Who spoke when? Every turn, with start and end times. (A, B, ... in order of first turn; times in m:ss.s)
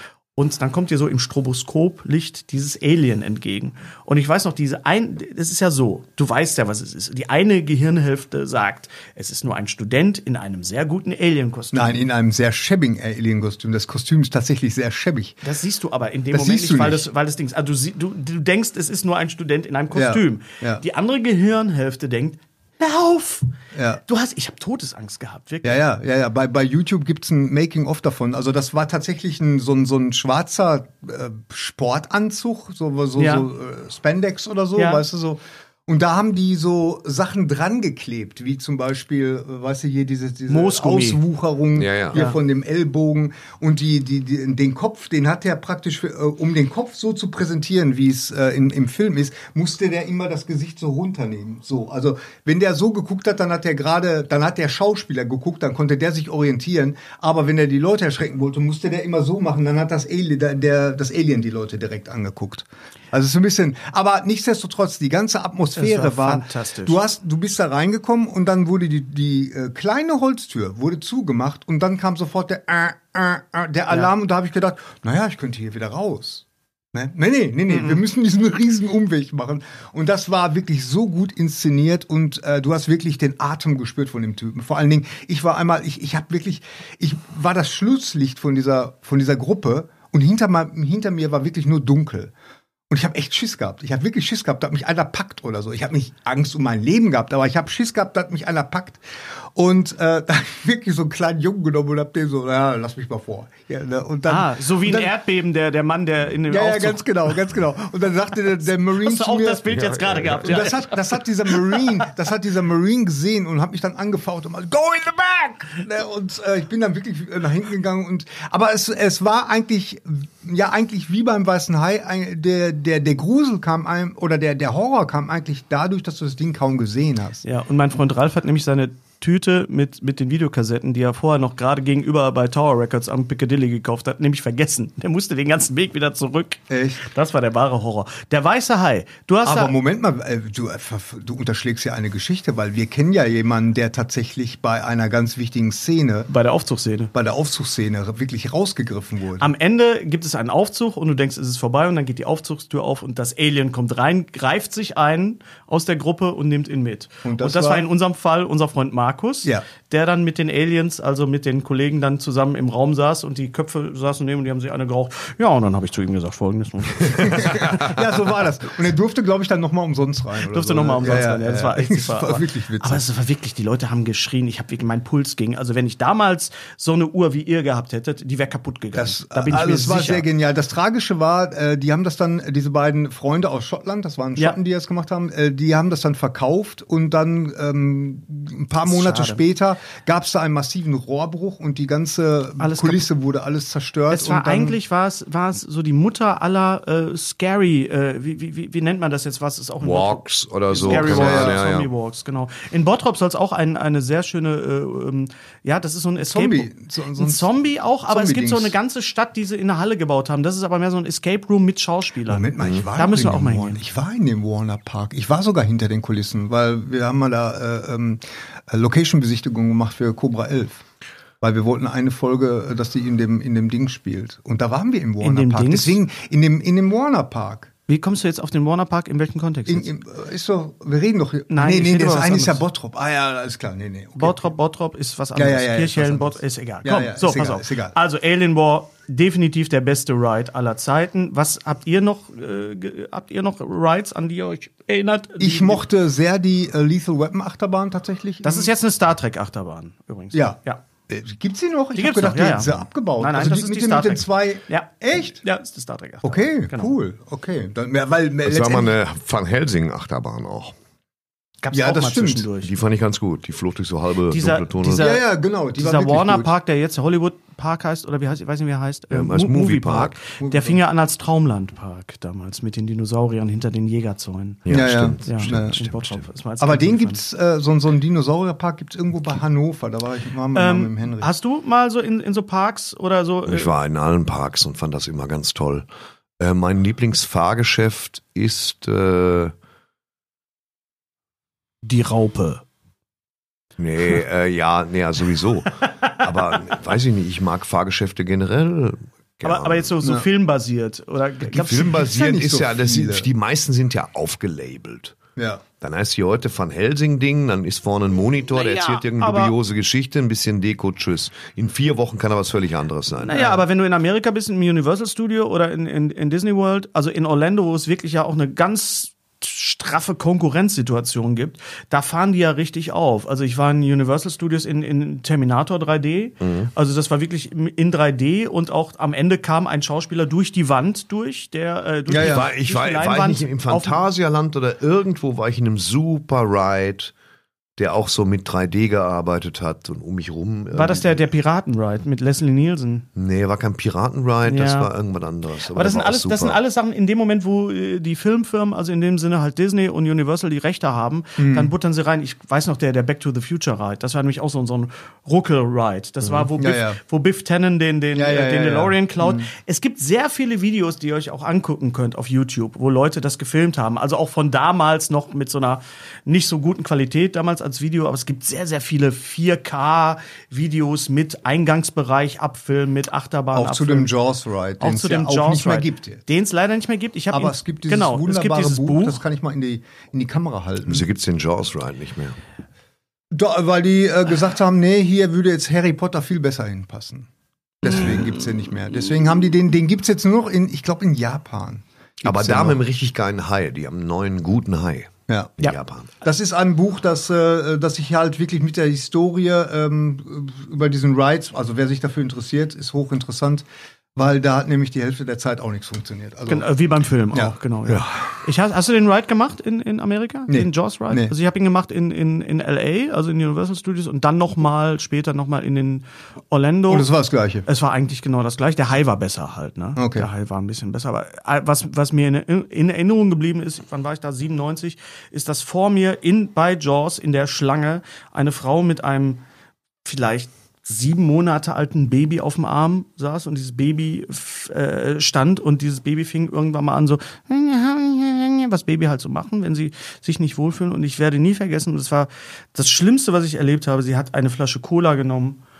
0:00.4-0:12.0 A
0:11.7-0:15.4 B
0:15.4-0:23.5 A
0:16.3-0:17.0 B
0:19.9-0:20.8 B
0:23.7-0:24.0 B
0:24.0-0:25.8 A
0:25.6-1:32.3 B
0:33.2-0:33.5 A
0:34.8-0:35.0 A
0:40.5-0:41.2 A
0:41.8-0:42.2 C
0:42.1-0:42.4 A
1:05.8-1:07.0 A
1:17.7-1:18.0 A
1:32.9-1:39.0 B
1:39.5-1:45.1 B
1:44.2-1:47.3 A
1:46.5-1:49.7 B
1:48.9-1:51.8 A
1:49.7-1:50.5 C
1:50.4-2:07.4 B
2:07.4-2:19.7 A
2:16.7-2:17.0 B
2:19.4-2:26.3 B
2:26.3-2:27.1 A
2:27.1-2:29.5 B
2:29.4-2:47.9 A
2:37.2-2:37.9 B
2:47.1-2:53.0 B
2:50.5-3:00.2 A
2:58.9-3:14.8 B
3:08.8-3:09.4 A
3:12.6-3:13.0 A
3:14.1-3:33.8 A
3:19.8-3:21.9 C
3:20.8-3:21.6 B
3:26.2-3:27.5 B
3:28.1-3:28.7 B
3:32.3-3:40.8 B
3:41.4-3:47.7 B
3:45.2-3:46.0 A
3:47.9-3:49.9 A
3:49.7-3:54.5 B
3:51.5-3:52.6 A
3:54.2-4:05.8 A
3:55.3-3:58.0 B
4:05.4-4:08.7 B
4:08.4-4:10.8 A
4:10.3-4:10.6 B
4:11.1-4:15.4 B
4:12.0-4:16.9 A
4:16.2-4:18.9 B
4:18.4-4:20.7 C
4:21.6-4:22.7 A
4:21.7-4:22.5 B
4:22.6-4:25.1 C
4:24.3-4:34.6 A
4:24.9-4:26.5 B
4:29.1-4:30.2 C
4:30.4-4:30.8 B
4:34.6-4:36.2 C
4:34.7-4:35.8 B
4:35.2-4:37.2 A
4:36.6-4:41.3 B
4:40.5-4:43.7 A
4:43.5-4:45.8 C
4:46.4-4:49.5 C
4:51.8-4:52.6 A
4:53.8-4:59.9 C
4:59.4-5:02.1 A
5:01.5-5:05.2 C
5:01.8-5:03.3 B
5:05.4-5:05.6 B
5:05.8-5:13.5 C
5:08.5-5:09.5 A
5:13.2-5:34.0 A
5:26.4-5:26.7 C
5:32.1-5:32.4 B
5:32.1-5:37.1 C
5:37.8-5:41.2 C
5:40.7-5:43.0 A
5:43.1-5:46.6 C
5:44.4-5:44.9 A
5:45.7-6:14.1 A
5:51.4-5:51.7 B
5:56.6-5:57.0 B
5:58.1-5:59.5 B
6:13.5-6:16.2 B
6:14.8-6:19.2 A
6:17.3-6:21.0 B
6:20.8-6:22.4 C
6:23.3-6:27.3 B
6:27.8-6:32.8 B
6:32.2-6:36.1 C
6:36.2-6:43.6 B
6:44.2-6:46.7 B
6:46.5-6:57.1 A
6:50.5-6:51.3 B
6:56.9-6:57.6 B
6:57.6-7:09.4 A
7:00.0-7:00.3 B
7:10.0-7:25.6 A